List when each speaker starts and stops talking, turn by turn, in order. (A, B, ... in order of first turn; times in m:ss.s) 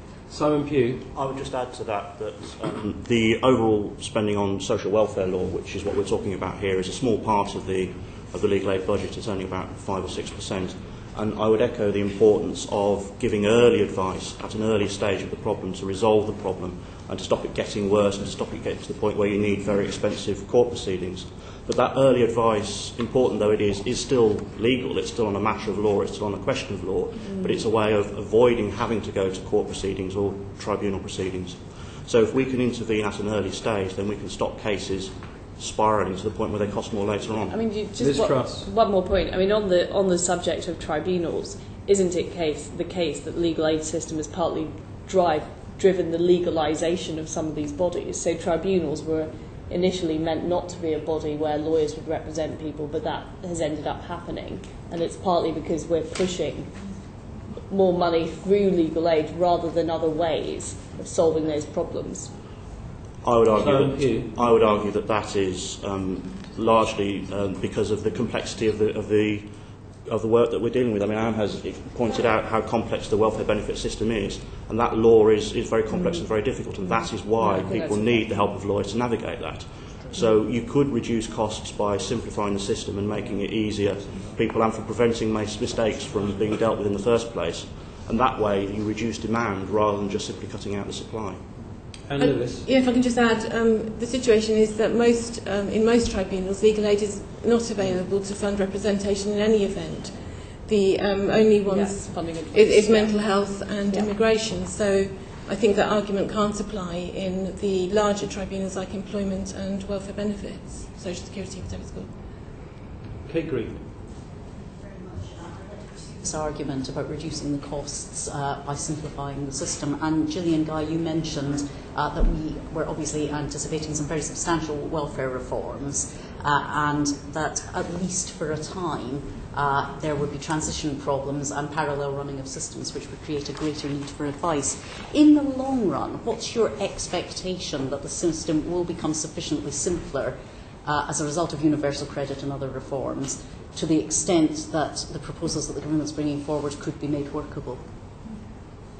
0:00.3-0:01.0 A
0:01.1-0:37.6 B
0:27.3-0:27.6 C
0:37.5-0:56.7 C
0:37.9-0:38.7 A
0:57.7-1:02.3 C
1:03.2-1:09.5 B
1:03.5-1:04.3 A
1:10.0-1:31.4 B
1:17.6-1:18.0 C
1:32.0-1:32.7 A
1:32.2-1:52.1 D
1:41.8-1:43.0 C
1:53.2-1:53.8 A
1:56.2-2:27.9 E